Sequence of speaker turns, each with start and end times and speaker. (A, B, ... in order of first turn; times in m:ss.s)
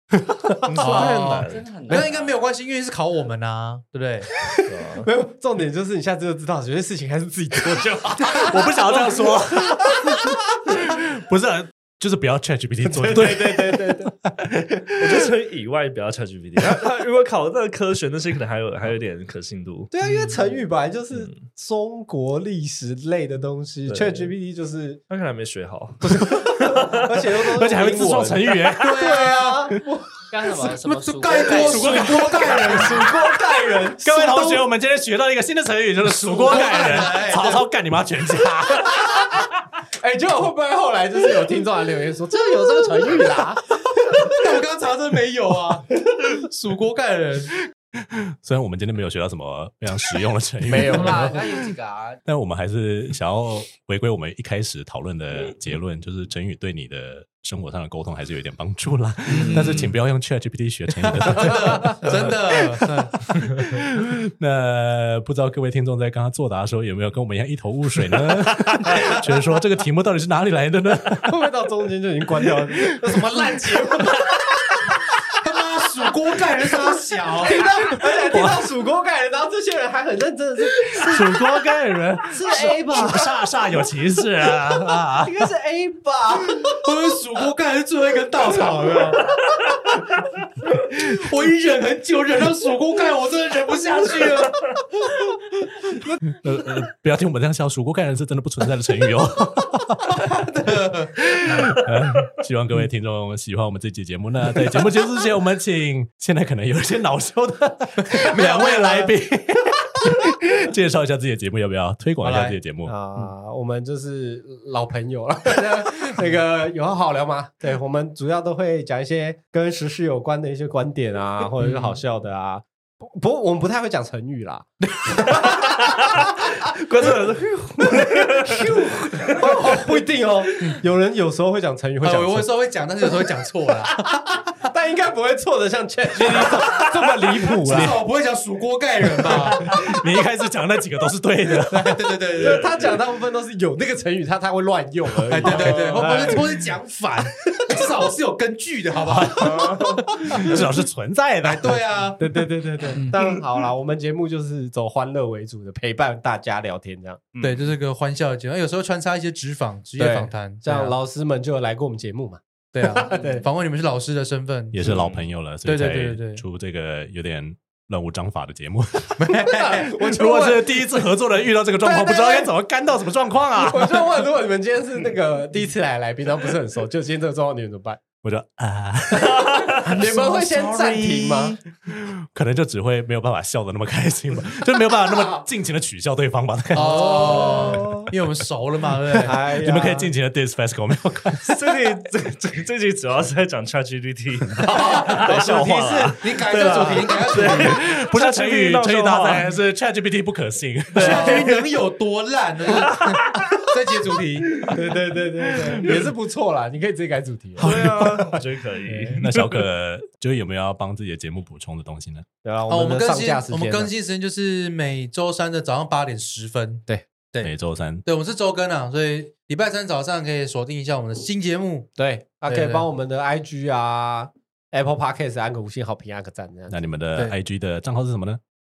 0:00.6-0:01.7 A
0:00.8-0:04.3 B
0:00.9-0:02.4 C
0:04.4-0:08.9 D
0:04.7-0:05.1 A
0:08.2-0:15.2 E
0:12.8-0:14.1 D
0:15.0-0:20.4 A
0:19.9-0:25.0 D
0:21.1-0:21.4 A
0:23.9-0:24.3 A
0:25.1-0:27.1 A
0:26.0-0:30.0 D
0:26.2-0:26.9 E
0:27.4-0:29.1 E
0:28.8-0:29.7 B
0:30.3-0:32.3 C
0:30.7-0:33.1 B
0:31.5-0:33.1 E
0:32.4-0:34.7 D
0:33.9-0:39.3 E
0:36.2-0:37.1 D
0:36.4-0:37.6 B
0:40.0-0:44.4 D
0:44.3-0:47.5 B
0:48.0-0:51.6 E
0:50.6-0:51.4 D
0:50.9-0:52.2 C
0:52.3-1:11.4 E
0:59.3-1:00.0 B
1:01.2-1:03.1 B
1:01.7-1:02.0 D
1:11.3-1:15.3 D
1:12.4-1:13.6 E
1:15.4-1:17.7 B
1:17.4-1:21.4 D
1:18.2-1:18.6 E
1:20.8-1:25.5 E
1:22.3-1:23.3 D
1:25.2-1:26.8 D
1:26.6-1:29.3 B
1:31.1-1:34.7 B
1:36.3-1:40.4 E
1:40.2-1:41.6 B
1:41.1-1:52.9 E
1:48.0-1:49.1 B
1:52.2-1:52.6 B
1:52.9-2:06.2 D
2:01.6-2:02.0 B
2:05.3-2:09.8 A
2:07.9-2:12.5 D
2:12.0-2:14.1 B
2:13.9-2:18.0 D
2:16.2-2:18.0 E
2:17.6-2:19.7 B
2:19.2-2:22.1 E
2:21.6-2:22.8 B
2:22.4-2:26.6 D
2:25.3-2:30.6 B
2:25.5-2:26.3 A
2:27.3-2:27.8 D
2:29.1-2:31.8 E
2:29.3-2:30.0 A
2:31.4-2:32.2 B
2:32.2-2:37.3 D
2:32.9-2:33.2 B
2:37.4-2:37.8 A
2:37.4-2:41.0 B
2:40.0-2:43.5 D
2:42.7-2:46.4 B
2:44.7-2:54.2 E
2:49.2-2:49.9 B
2:49.6-2:51.1 D
2:51.8-2:52.5 D
2:53.6-2:58.0 D
2:58.2-3:08.2 E
2:59.3-3:01.6 D
2:59.9-3:01.5 B
3:05.1-3:05.4 D
3:06.7-3:08.1 D
3:06.8-3:09.4 B
3:09.1-3:11.7 E
3:09.2-3:10.1 D
3:11.4-3:19.6 A
3:14.6-3:17.8 B
3:17.3-3:21.5 E
3:20.9-3:21.6 A
3:21.0-3:24.7 B
3:22.9-3:23.3 A
3:24.6-3:28.1 D
3:25.5-3:26.1 E
3:27.6-3:28.4 E
3:27.6-3:29.6 A
3:28.9-3:29.2 D
3:29.2-3:32.3 E
3:32.4-3:33.9 D
3:32.7-3:37.5 B
3:37.4-3:38.0 E
3:38.1-3:41.9 B
3:42.0-3:46.8 D
3:42.5-3:42.9 B
3:46.7-3:48.4 E